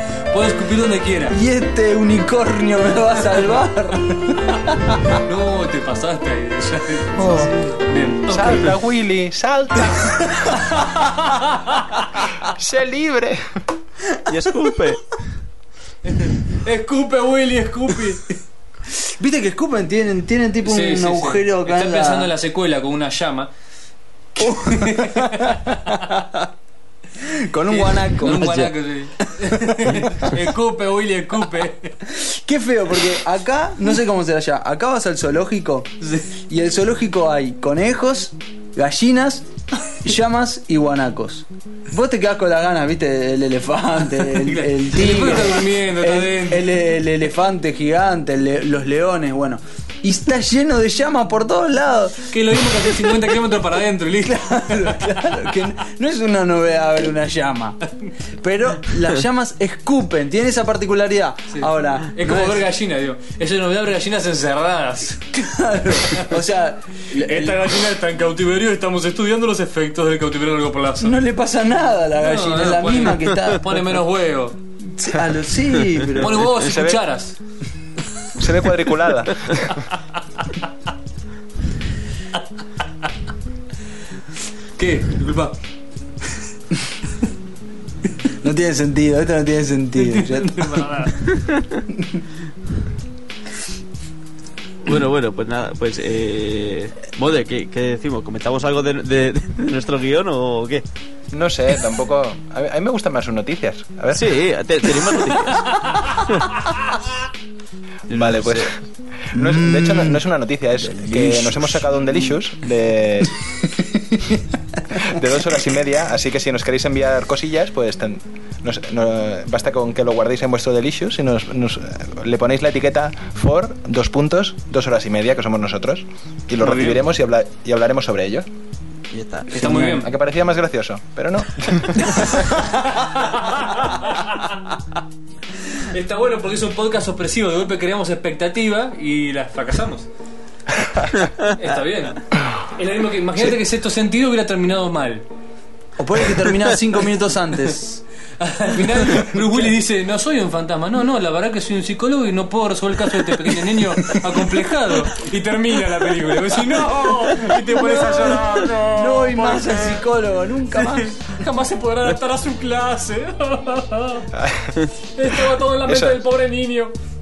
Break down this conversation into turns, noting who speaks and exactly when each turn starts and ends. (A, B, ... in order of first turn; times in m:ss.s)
0:00.3-0:01.4 A
0:01.3-0:05.1 B
0:05.2-0:08.7 A
0:07.2-0:07.5 B
0:08.3-0:11.0 C
0:10.9-0:11.8 A
0:12.2-0:13.4 C
0:14.3-0:15.2 D
0:16.1-0:18.3 A
0:19.0-0:22.3 B
0:20.6-0:23.5 A
0:24.4-0:26.0 A
0:24.4-0:26.5 B
0:27.2-0:30.3 B
0:27.7-0:32.0 A
0:32.1-0:52.9 B
0:36.0-0:36.3 A
0:44.4-0:46.7 A
0:52.3-0:55.0 A
0:54.2-0:57.8 B
0:58.4-1:02.7 B
1:01.5-1:05.5 A
1:05.4-1:07.8 B
1:07.1-1:11.2 A
1:11.0-1:13.8 B
1:12.2-1:14.6 A
1:14.8-1:16.6 B
1:16.2-1:17.4 A
1:16.6-1:17.0 C
1:18.4-1:19.9 C
1:24.8-1:25.6 A
1:28.4-1:31.0 B
1:30.0-1:31.2 A
1:31.3-1:31.8 D
1:31.9-1:32.2 B
1:34.8-1:40.8 D
1:41.3-1:44.3 C
1:44.1-1:46.6 D
1:48.1-1:48.7 D
1:48.1-1:48.7 C
1:49.3-1:53.4 C
1:49.3-1:50.2 B
1:51.0-1:51.8 D
1:53.8-1:54.4 B
1:55.0-2:08.5 C
2:06.6-2:07.0 A
2:09.1-2:09.5 D
2:09.5-2:10.1 A
2:09.5-2:10.1 B
2:10.0-2:12.5 C
2:12.5-2:14.5 A
2:15.8-2:20.1 A
2:21.5-2:25.2 A
2:26.0-2:28.0 B
2:28.4-2:40.0 A
2:28.9-2:29.4 B
2:37.6-2:41.2 B
2:41.0-2:44.3 A
2:44.3-2:44.8 C
2:45.2-2:46.9 A
2:45.9-2:46.2 C